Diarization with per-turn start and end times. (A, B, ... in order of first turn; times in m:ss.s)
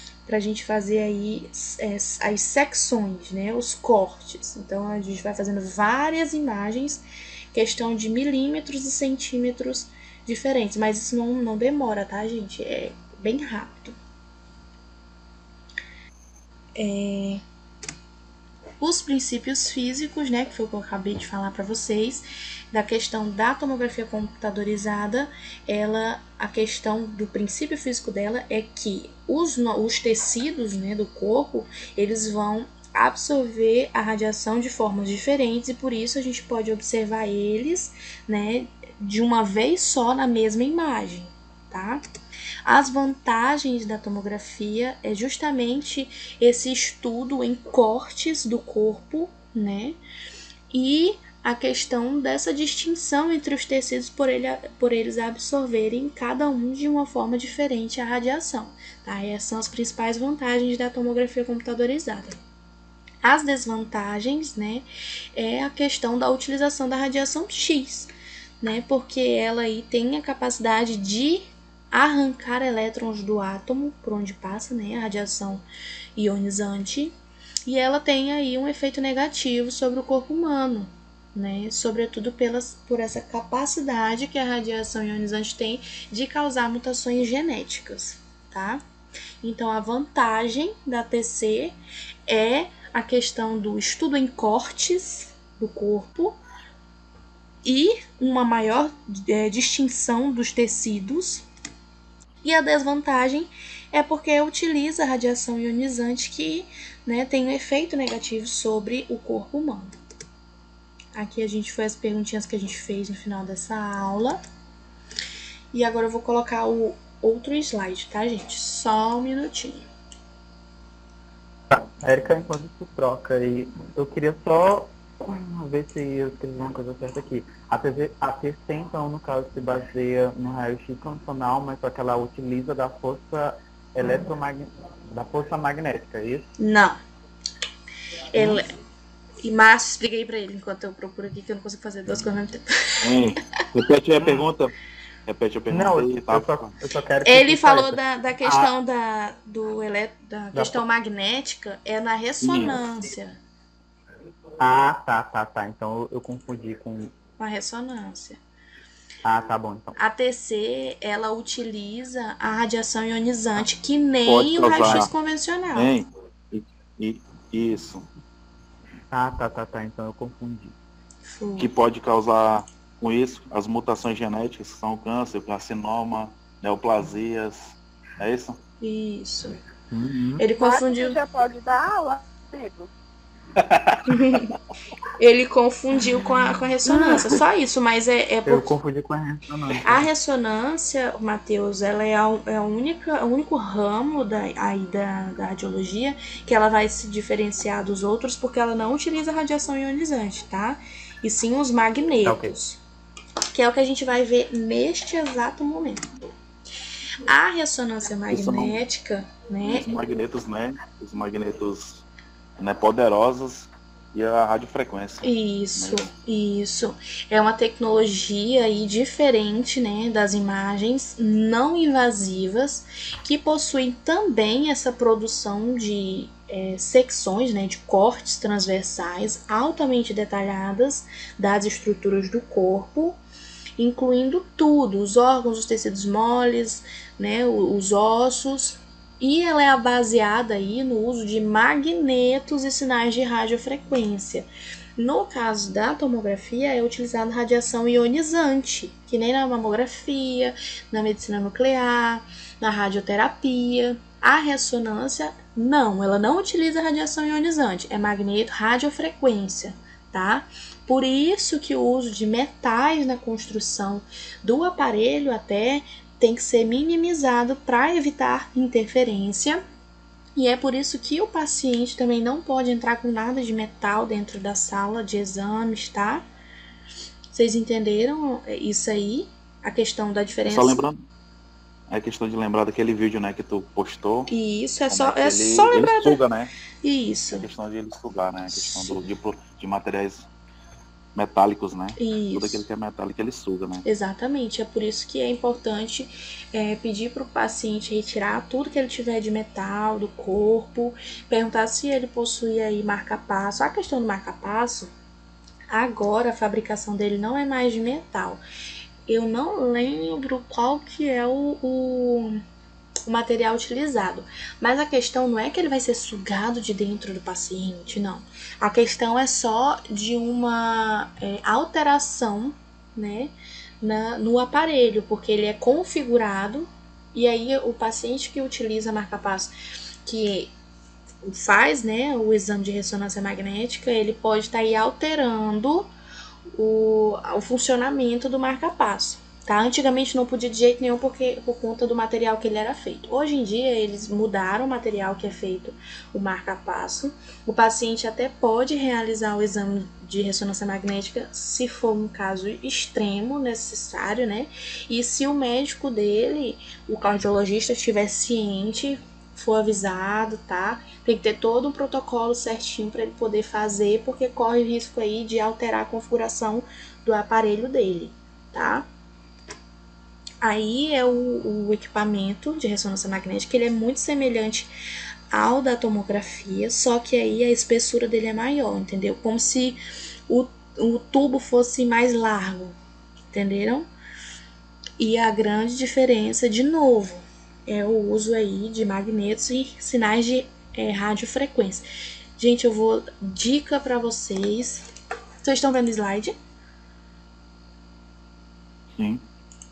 0:00.2-0:07.0 A
0:07.5-0:14.0 A
0:16.7-0:17.4 A
0:18.8-0:42.0 A
0:42.6-0:50.0 A
0:50.7-1:02.4 A
1:03.2-1:08.1 A
1:08.6-1:15.6 A
1:16.2-1:17.1 A
1:17.6-1:28.8 A
1:29.4-1:31.8 A
1:32.3-1:36.4 A
1:37.6-1:41.4 A
1:42.4-1:49.9 A
1:51.1-1:54.4 A
1:55.7-1:59.8 A
2:01.7-2:16.5 B
2:16.6-2:17.0 A
2:18.3-2:18.7 A
2:19.4-2:23.3 A
2:23.0-2:24.7 C
2:24.2-2:24.5 B
2:25.3-2:26.7 C
2:25.7-2:28.7 B
2:27.2-2:33.4 A
2:30.5-2:30.8 B
2:32.4-2:32.8 C
2:34.6-2:37.1 B
2:37.4-2:38.4 A
2:39.2-2:40.0 B
2:40.0-2:45.9 A
2:44.2-2:45.1 C
2:45.7-2:48.0 C
2:49.1-2:50.7 B
2:51.2-2:51.7 A
2:51.6-2:58.6 C
2:58.8-2:59.6 A
2:59.9-3:00.4 B
3:00.4-3:01.2 A
3:00.6-3:02.9 D
3:03.6-3:04.5 C
3:04.1-3:04.5 A
3:05.2-3:08.7 A
3:08.4-3:10.1 B
3:09.8-3:22.8 A
3:22.2-3:22.6 B
3:23.5-3:26.3 A
3:27.2-3:29.9 A
3:28.3-3:28.8 C
3:29.6-3:32.0 C
3:32.6-3:36.1 C
3:35.2-3:53.2 A
3:53.8-4:29.6 A
4:30.4-4:36.2 A
4:37.3-4:40.8 A
4:40.4-4:41.0 C
4:41.9-4:44.3 C
4:44.3-4:46.2 A
4:44.9-4:46.5 C
4:46.8-4:47.5 A
4:47.3-4:50.3 C
4:48.5-4:49.0 A
4:51.1-4:53.8 C
4:52.0-4:52.6 A
4:53.8-5:04.9 A
5:05.7-5:08.4 A
5:09.1-5:12.4 A
5:13.1-5:29.5 A
5:30.0-5:30.5 A
5:31.2-5:35.9 A
5:36.5-6:08.9 A
6:10.4-6:14.7 A
6:15.3-6:22.7 A
6:23.3-6:23.8 A
6:25.0-6:31.8 A
6:32.4-6:34.8 A
6:35.4-6:36.3 A
6:39.0-6:39.2 C